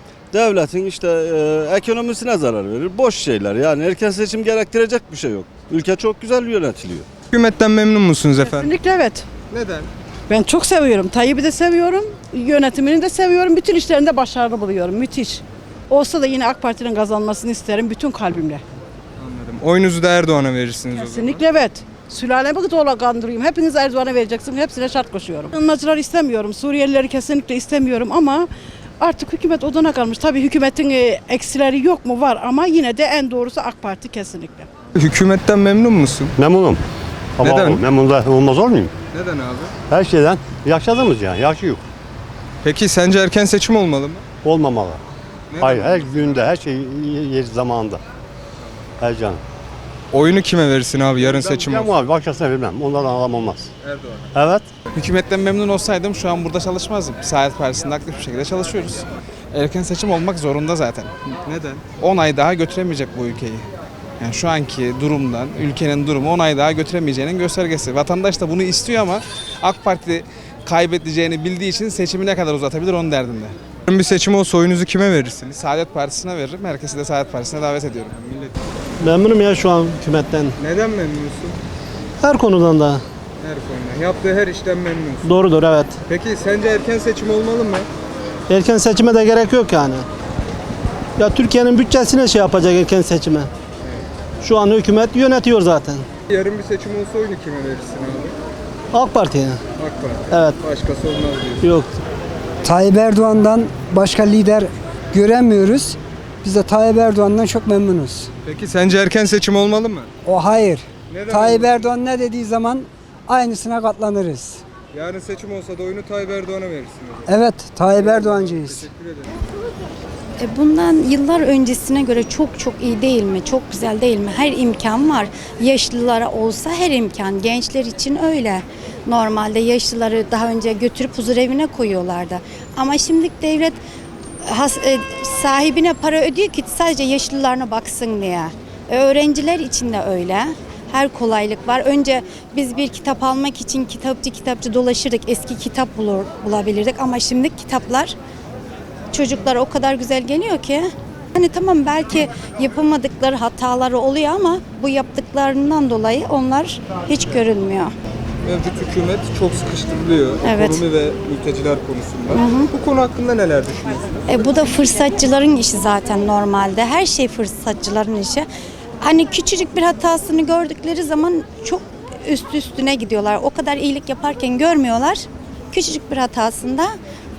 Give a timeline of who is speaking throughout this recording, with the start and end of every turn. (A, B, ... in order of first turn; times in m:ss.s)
0:00.3-0:07.1 A
0:07.3-0:08.7 B
0:08.5-0:09.3 C
0:09.5-0:09.9 B
0:10.3-0:18.6 C
0:19.2-0:21.5 B
0:20.9-0:34.7 C
0:35.0-0:36.3 B
0:36.4-0:36.8 D
0:37.4-0:38.9 D
0:37.4-0:37.8 B
0:39.1-0:39.7 B
0:39.9-0:41.8 D
0:42.6-0:44.2 B
0:44.4-0:45.0 D
0:45.5-0:46.4 B
0:45.6-0:48.0 D
0:49.0-0:49.4 D
0:50.1-0:52.0 B
0:51.3-0:53.7 D
0:53.8-0:54.3 B
0:54.3-0:54.7 D
0:55.0-1:01.4 C
1:01.4-1:01.8 B
1:02.0-1:03.7 C
1:04.2-1:13.6 C
1:13.9-1:15.6 B
1:15.6-1:18.1 C
1:18.1-1:18.6 B
1:19.0-1:20.6 E
1:20.6-1:21.6 B
1:22.2-1:23.0 E
1:23.4-1:25.4 B
1:25.2-1:25.9 E
1:26.1-1:27.9 B
1:28.5-1:30.1 E
1:31.2-1:33.5 E
1:34.4-1:36.1 E
1:36.3-1:38.4 B
1:38.9-1:39.6 E
1:39.8-1:41.7 B
1:40.3-1:40.6 E
1:41.6-1:41.9 E
1:42.6-1:48.3 F
1:48.4-1:50.1 B
1:50.2-1:54.6 F
1:51.1-1:52.0 B
1:54.9-1:59.4 B
1:57.3-1:58.9 F
2:00.4-2:13.8 G
2:14.4-2:28.2 G
2:29.1-2:37.9 G
2:38.4-2:44.4 B
2:40.4-2:40.9 G
2:42.3-2:42.7 G
2:44.3-2:48.5 G
2:49.0-2:56.9 G